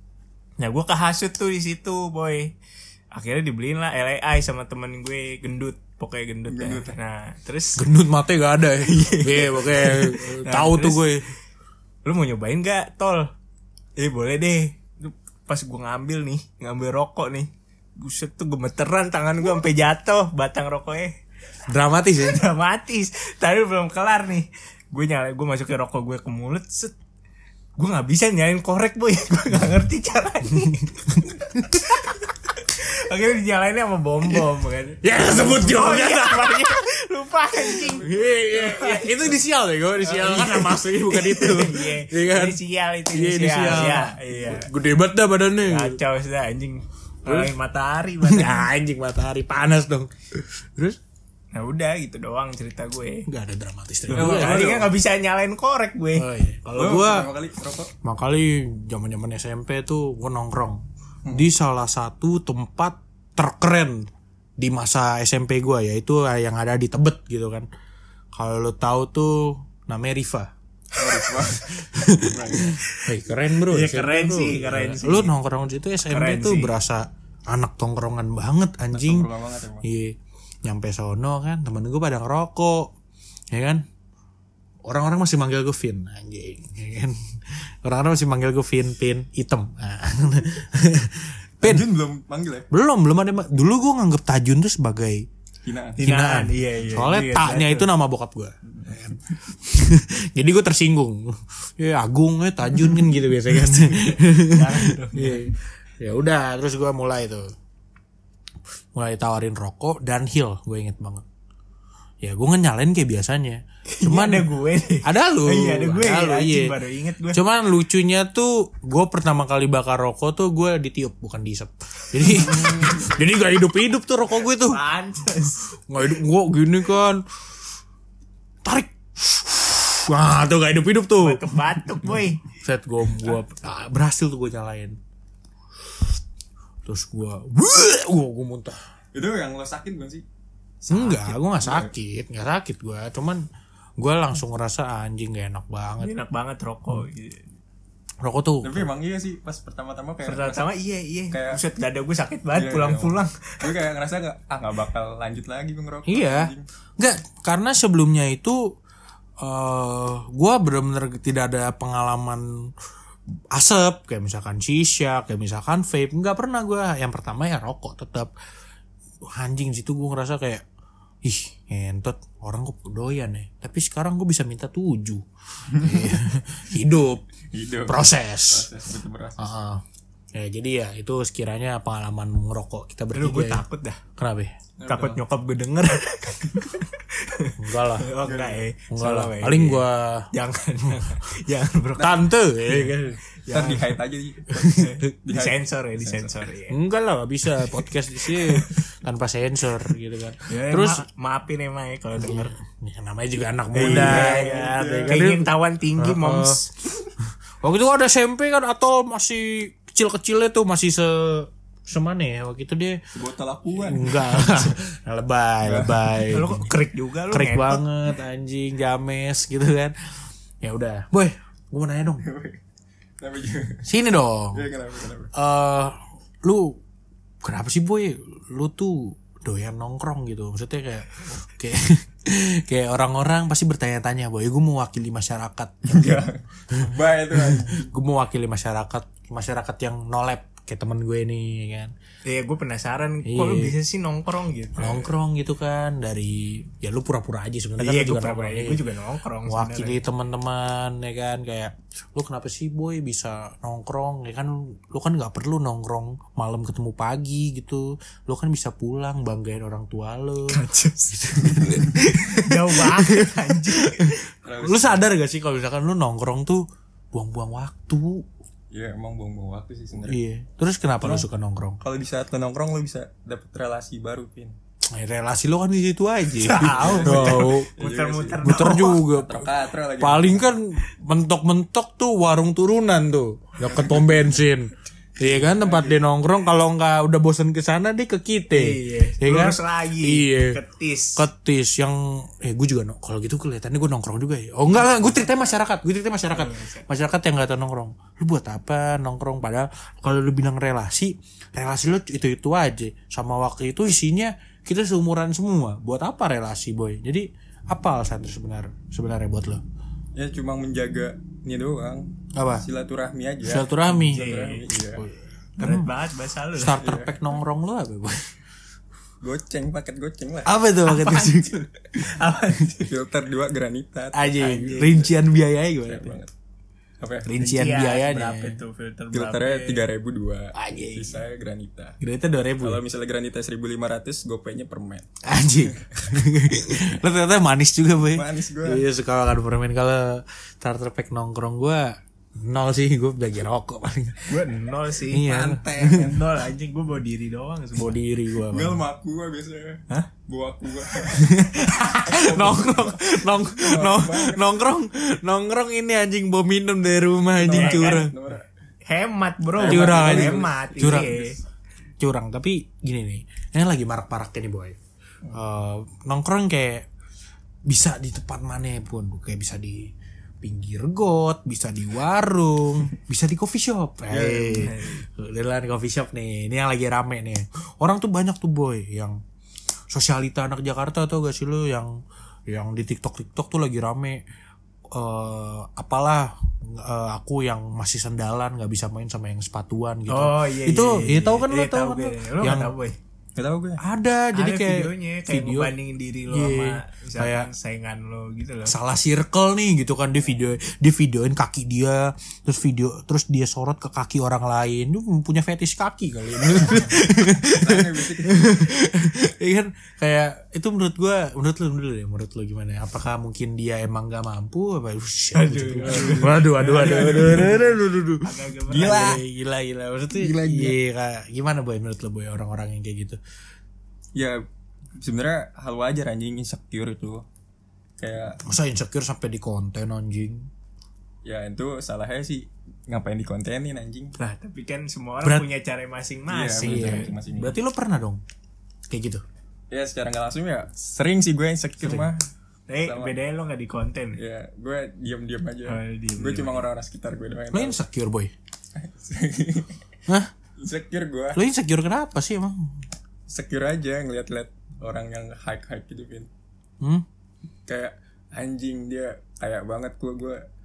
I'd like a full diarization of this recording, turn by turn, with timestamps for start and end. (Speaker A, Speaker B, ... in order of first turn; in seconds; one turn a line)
Speaker A: 0.6-2.5
Speaker A: 3.1-7.8
Speaker B: 6.5-7.0
Speaker C: 7.8-11.3
Speaker A: 8.8-11.2
Speaker A: 12.0-13.3
Speaker A: 14.0-21.2
Speaker C: 21.7-22.4
Speaker A: 22.2-26.9
Speaker A: 27.8-31.2
Speaker C: 31.1-31.8
Speaker A: 31.7-39.3
Speaker C: 35.0-36.8
Speaker B: 37.9-38.3
Speaker C: 38.0-42.6
Speaker A: 40.0-44.7
Speaker C: 43.1-46.0
Speaker A: 45.7-48.7
Speaker C: 47.2-47.5
Speaker C: 48.2-51.0
Speaker A: 51.5-53.3
Speaker C: 53.3-54.7
Speaker B: 54.1-54.9
Speaker A: 54.1-56.3
Speaker C: 56.1-57.3
Speaker B: 56.7-57.9
Speaker C: 58.0-67.7
Speaker C: 68.3-70.5
Speaker B: 70.9-72.7
Speaker C: 71.8-79.3
Speaker A: 73.7-75.3
Speaker A: 76.1-76.8
Speaker B: 78.9-79.8
Speaker C: 79.8-82.9
Speaker C: 83.5-83.8
Speaker C: 84.8-91.8
Speaker B: 91.6-92.7
Speaker C: 92.7-95.3
Speaker B: 95.6-96.0
Speaker A: 96.0-97.9
Speaker C: 96.0-107.5
Speaker B: 98.7-99.0
Speaker A: 104.4-105.5
Speaker C: 108.9-111.2
Speaker C: 112.2-116.7
Speaker A: 113.9-117.4
Speaker C: 117.3-124.8
Speaker B: 122.6-122.9
Speaker A: 124.4-125.6
Speaker C: 125.9-127.2
Speaker C: 128.6-131.5
Speaker A: 131.2-132.5
Speaker C: 132.1-135.0
Speaker C: 136.8-138.8
Speaker B: 139.1-140.2
Speaker B: 140.8-141.9
Speaker C: 140.9-143.4
Speaker C: 144.0-146.1
Speaker A: 146.0-147.4
Speaker C: 148.2-148.9
Speaker B: 148.6-150.7
Speaker A: 150.2-153.7
Speaker B: 151.3-151.6
Speaker B: 152.5-156.6
Speaker C: 156.1-158.6
Speaker C: 159.4-162.7
Speaker C: 163.5-168.3
Speaker C: 169.2-170.6
Speaker C: 171.2-177.2
Speaker B: 175.7-176.1
Speaker B: 177.5-179.4
Speaker C: 177.8-178.7
Speaker C: 179.4-179.8
Speaker C: 180.3-183.6
Speaker A: 183.1-184.0
Speaker C: 184.2-184.5
Speaker B: 184.8-185.2
Speaker A: 184.8-193.9
Speaker C: 187.6-188.1
Speaker B: 188.2-188.6
Speaker C: 188.9-190.3
Speaker C: 192.0-193.2
Speaker B: 193.5-196.4
Speaker A: 194.8-196.8
Speaker C: 196.7-201.0
Speaker A: 197.7-198.8
Speaker A: 200.5-202.5
Speaker C: 202.2-205.4
Speaker A: 203.7-206.7
Speaker B: 203.7-205.2
Speaker C: 206.0-206.6
Speaker C: 207.6-213.0
Speaker B: 213.1-214.7
Speaker C: 213.8-216.7
Speaker B: 215.6-216.1
Speaker A: 216.2-217.8
Speaker C: 217.3-219.9
Speaker C: 220.6-222.2
Speaker B: 222.2-222.6
Speaker B: 223.2-223.8
Speaker C: 223.8-224.6
Speaker B: 224.5-225.3
Speaker C: 225.3-226.8
Speaker C: 227.4-241.9
Speaker B: 235.9-237.9
Speaker A: 242.2-245.1
Speaker C: 243.2-243.7
Speaker C: 244.8-248.8
Speaker A: 247.8-250.0
Speaker C: 249.5-268.2
Speaker A: 260.5-264.2
Speaker B: 264.4-265.1
Speaker B: 268.7-270.2
Speaker C: 270.1-271.8
Speaker B: 271.0-271.3
Speaker B: 271.8-274.6
Speaker C: 274.9-277.7
Speaker A: 276.3-279.0
Speaker B: 276.6-280.5
Speaker C: 278.4-279.5
Speaker C: 280.0-290.6
Speaker B: 283.6-284.2
Speaker B: 285.2-286.1
Speaker A: 288.5-291.2
Speaker C: 291.1-309.6
Speaker A: 296.3-296.8
Speaker B: 310.1-315.0
Speaker C: 312.3-312.6
Speaker C: 313.4-315.9
Speaker A: 314.1-314.7
Speaker A: 315.6-316.8
Speaker C: 316.6-318.3
Speaker B: 316.8-317.1
Speaker B: 319.2-320.5
Speaker C: 320.4-321.6
Speaker A: 320.8-322.9
Speaker B: 322.8-325.1
Speaker C: 324.1-326.2
Speaker B: 325.9-326.3
Speaker B: 327.0-327.3
Speaker C: 327.2-328.6
Speaker A: 327.4-329.9
Speaker B: 329.1-332.0
Speaker C: 330.5-331.2
Speaker C: 332.0-332.8
Speaker B: 332.6-335.1
Speaker C: 335.2-344.4
Speaker B: 338.1-338.8
Speaker A: 344.3-348.0
Speaker C: 345.1-346.1
Speaker B: 345.3-346.2
Speaker C: 347.8-348.8
Speaker B: 348.5-351.3
Speaker C: 351.1-358.1
Speaker B: 352.1-354.6
Speaker B: 357.4-358.4
Speaker A: 357.5-358.1
Speaker A: 358.9-361.4
Speaker B: 359.5-361.4
Speaker C: 359.6-361.1
Speaker C: 362.0-364.8
Speaker C: 365.3-366.9
Speaker C: 367.6-379.2
Speaker B: 374.1-374.7
Speaker A: 374.5-375.0
Speaker C: 379.9-381.9
Speaker C: 382.5-384.2
Speaker C: 384.9-392.7
Speaker A: 390.1-392.9
Speaker B: 393.4-393.8
Speaker C: 393.8-395.7
Speaker A: 394.3-398.7
Speaker C: 396.3-397.5
Speaker C: 398.6-423.2
Speaker B: 407.4-408.5
Speaker A: 415.3-419.2
Speaker B: 415.9-417.6
Speaker B: 418.7-419.2
Speaker B: 420.1-420.8
Speaker B: 424.1-424.4
Speaker B: 425.0-427.2
Speaker B: 428.0-428.4
Speaker C: 428.4-430.5
Speaker B: 431.2-434.1
Speaker A: 434.2-437.1
Speaker B: 436.3-437.5
Speaker C: 436.6-438.2
Speaker C: 438.9-439.2
Speaker B: 439.7-442.3
Speaker A: 442.7-444.2
Speaker B: 442.8-443.1
Speaker B: 444.1-447.8
Speaker A: 445.7-446.6
Speaker C: 447.5-448.3
Speaker B: 448.7-449.8
Speaker B: 450.6-451.4
Speaker C: 451.3-452.8
Speaker B: 453.3-456.3
Speaker B: 457.7-460.4